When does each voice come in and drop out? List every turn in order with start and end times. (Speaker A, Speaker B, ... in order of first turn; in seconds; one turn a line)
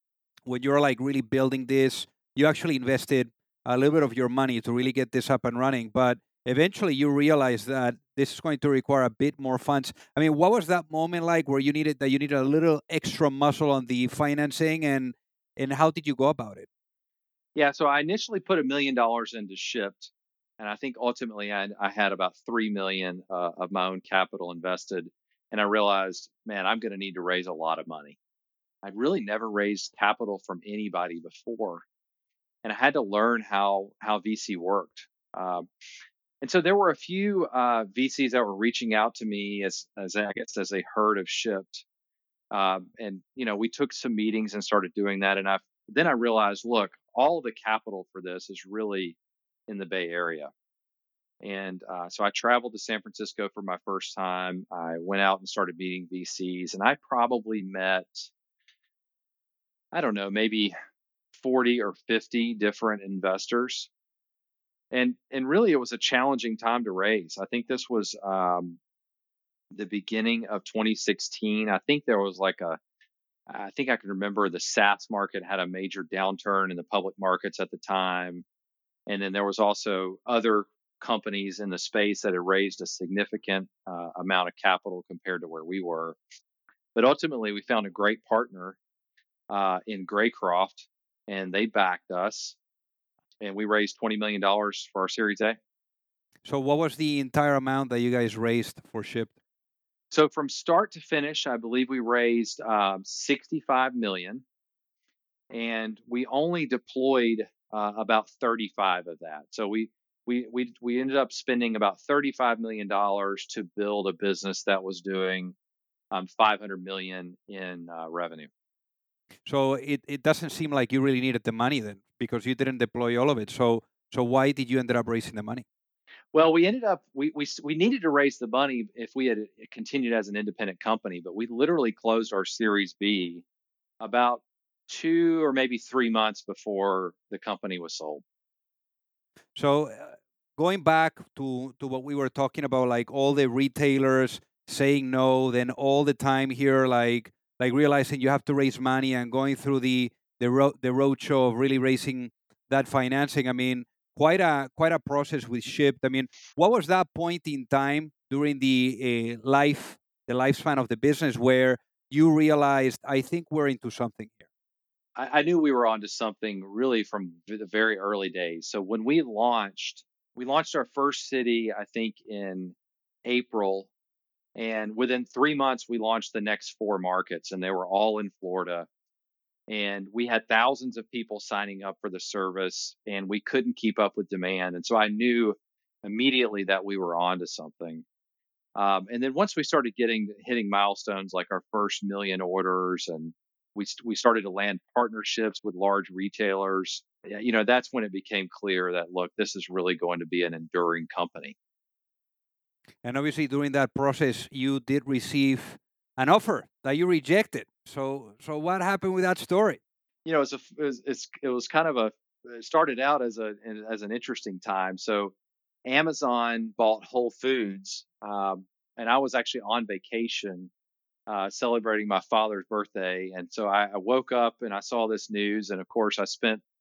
Speaker A: 0.5-16.7
Speaker B: 17.6-28.2
Speaker B: 28.8-31.8
Speaker B: 32.6-35.6
Speaker B: 36.4-41.8
Speaker B: 42.5-49.2
Speaker B: 49.7-50.5
Speaker B: 51.4-58.3
Speaker B: 59.9-60.7
Speaker B: 61.3-63.9
Speaker B: 64.9-68.8
Speaker B: 69.7-72.8
Speaker B: 73.5-78.4
Speaker B: 79.1-86.2
Speaker B: 86.9-88.8
Speaker B: 89.5-92.6
Speaker B: 93.4-95.6
Speaker A: 96.4-99.3
Speaker B: 100.1-104.4
Speaker B: 105.5-115.5
Speaker B: 116.1-118.5
Speaker A: 119.5-125.6
Speaker B: 126.3-133.4
Speaker B: 134.0-138.2
Speaker A: 139.6-164.4
Speaker B: 165.2-173.9
Speaker B: 174.6-178.9
Speaker B: 179.7-188.0
Speaker B: 188.8-201.6
Speaker A: 203.0-209.8
Speaker B: 210.2-215.3
Speaker B: 215.8-220.7
Speaker B: 221.3-226.6